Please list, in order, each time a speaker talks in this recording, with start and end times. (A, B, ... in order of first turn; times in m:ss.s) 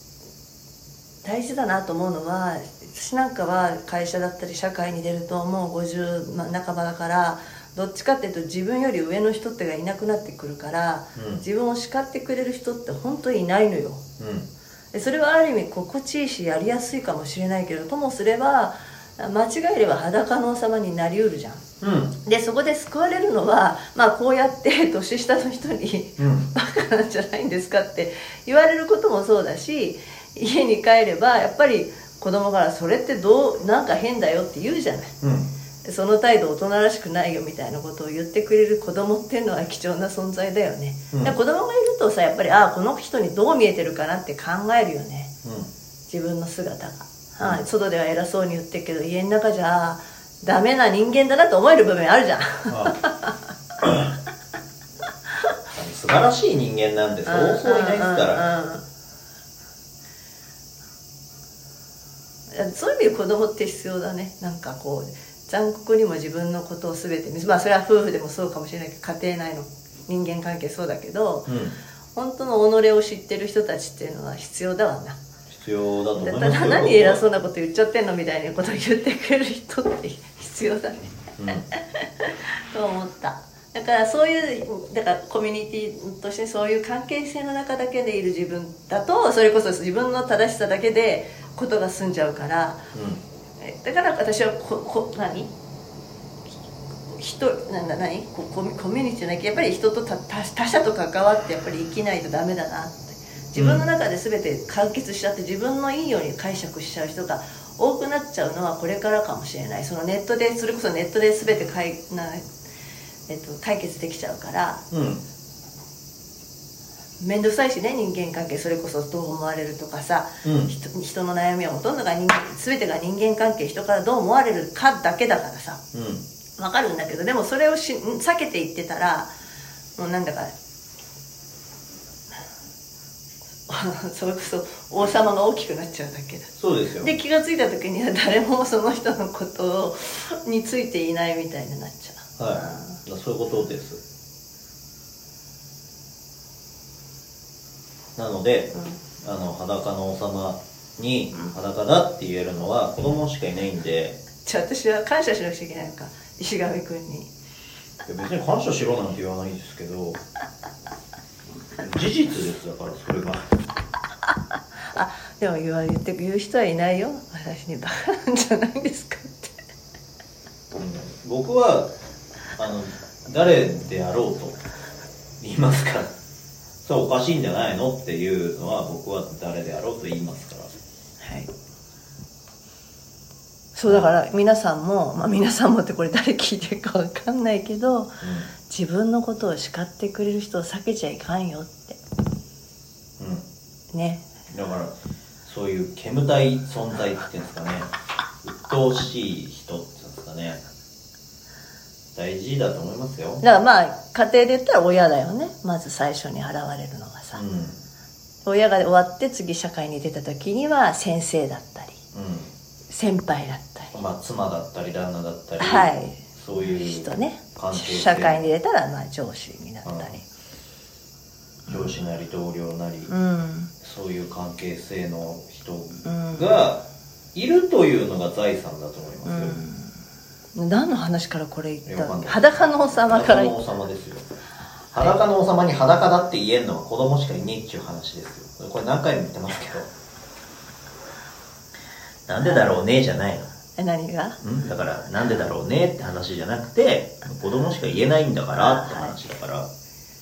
0:01.2-0:14.0 A
0:11.2-0:11.4 B
0:14.2-0:14.5 B
0:14.9-0:21.6 A
0:21.8-0:22.2 B
0:22.2-0:35.1 A
0:26.2-0:26.5 B
0:35.2-0:35.5 B
0:35.8-0:45.3 A
0:41.1-0:41.4 B
0:45.4-0:45.7 B
0:46.1-0:53.4 A
0:52.7-0:53.0 B
0:55.7-0:58.5 B
0:57.3-0:58.8 A
1:02.5-1:11.5 A
1:11.5-1:11.8 B
1:12.2-1:15.2 A
1:15.5-1:17.2 B
1:16.2-1:32.8 A
1:21.4-1:21.6 B
1:32.9-1:33.2 B
1:33.6-1:35.5 A
1:37.1-1:52.4 A
1:43.6-1:43.8 B
1:53.3-1:54.8 A
1:54.9-1:55.2 B
1:57.2-2:05.8 A
2:00.4-2:00.7 B
2:05.9-2:06.2 B
2:06.6-2:09.3 A
2:10.0-2:10.5 A
2:13.7-2:23.0 A
2:16.6-2:17.1 B
2:22.4-2:24.0 B
2:28.2-2:34.2 B
2:34.4-2:37.3 A
2:38.1-2:40.2 B
2:41.8-2:43.5 B
2:44.9-2:49.6 A
2:50.7-2:51.9 B
2:52.6-2:54.6 B
2:55.4-2:56.1 B
2:56.8-3:00.7 B
3:01.2-3:01.5 A
3:03.8-3:12.0 A
3:08.2-3:08.5 B
3:13.2-3:13.4 B
3:13.9-3:14.3 A
3:14.5-3:17.9 B
3:18.4-3:20.6 B
3:22.2-3:23.4 B
3:23.4-3:27.4 A
3:27.4-3:27.8 B
3:28.4-3:32.0 A
3:32.1-3:32.5 B
3:32.9-3:34.0 A
3:33.9-3:38.5 B
3:35.6-3:40.2 A
3:39.8-3:40.2 B
3:41.7-3:43.1 B
3:43.1-3:43.7 A
3:43.8-3:49.6 B
3:46.0-3:46.5 A
3:49.2-3:49.9 A
3:50.6-3:53.6 A
3:51.9-3:52.5 B
3:53.0-3:54.2 B
3:54.9-3:59.9 B
4:02.3-4:03.5 B
4:02.4-4:02.7 A
4:03.8-4:04.4 A
4:04.4-4:09.7 B
4:08.6-4:09.2 A